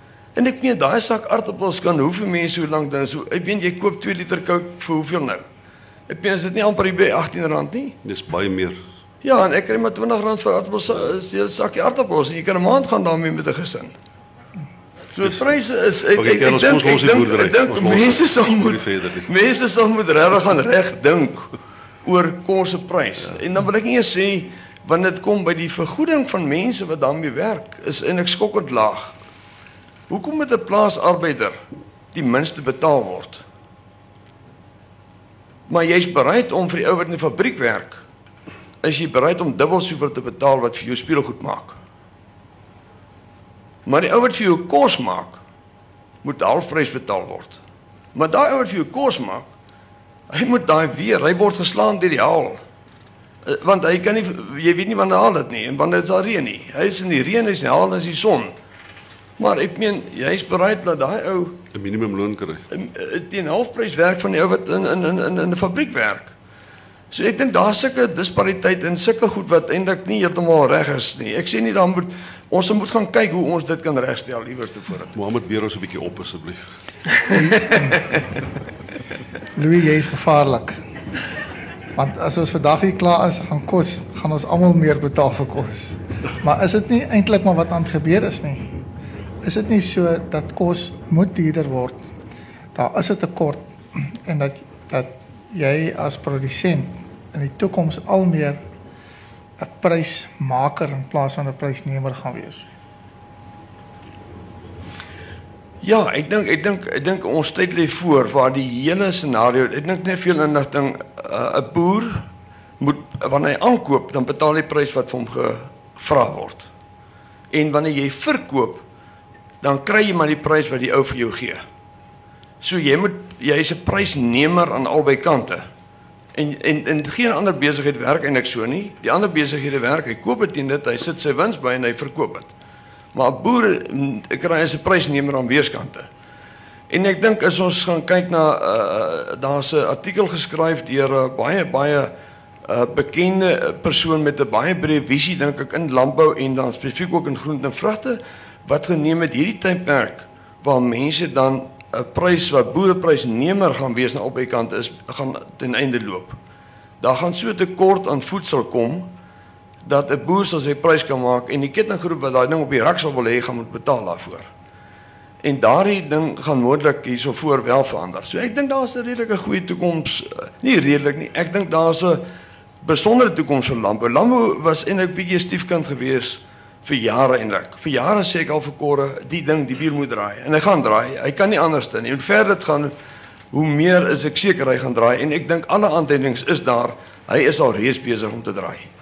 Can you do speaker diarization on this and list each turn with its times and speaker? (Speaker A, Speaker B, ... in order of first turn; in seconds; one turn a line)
Speaker A: 0.4-5.4
Speaker A: 6.1-8.0
Speaker B: 8.1-8.8
Speaker A: 9.2-13.9
Speaker A: 15.2-21.5
Speaker B: 15.2-15.5
Speaker B: 16.1-19.3
Speaker A: 22.0-29.1
Speaker A: 30.1-31.6
Speaker A: 32.1-33.4
Speaker A: 35.7-38.0
Speaker A: 38.8-41.8
Speaker A: 43.9-45.4
Speaker A: 46.2-47.6
Speaker A: 48.1-49.5
Speaker A: 50.3-52.6
Speaker A: 53.5-58.5
Speaker A: 59.4-61.6
Speaker B: 61.7-62.7
Speaker A: 62.7-66.3
Speaker A: 67.1-75.1
Speaker B: 75.2-76.7
Speaker C: 77.3-78.0
Speaker C: 79.6-80.8
Speaker C: 82.0-88.7
Speaker C: 89.4-92.0
Speaker C: 92.8-98.6
Speaker C: 99.6-102.7
Speaker A: 105.8-112.2
Speaker A: 112.8-116.7
Speaker A: 117.5-118.8
Speaker A: 119.6-121.6
Speaker A: 122.6-125.7
Speaker A: 126.3-132.5
Speaker A: 133.1-136.1
Speaker A: 136.9-142.1
Speaker A: 142.7-156.4
Speaker A: 157.0-159.1
Speaker A: 159.8-164.5
Speaker A: 165.4-172.2
Speaker A: 172.8-182.9
Speaker A: 183.5-188.9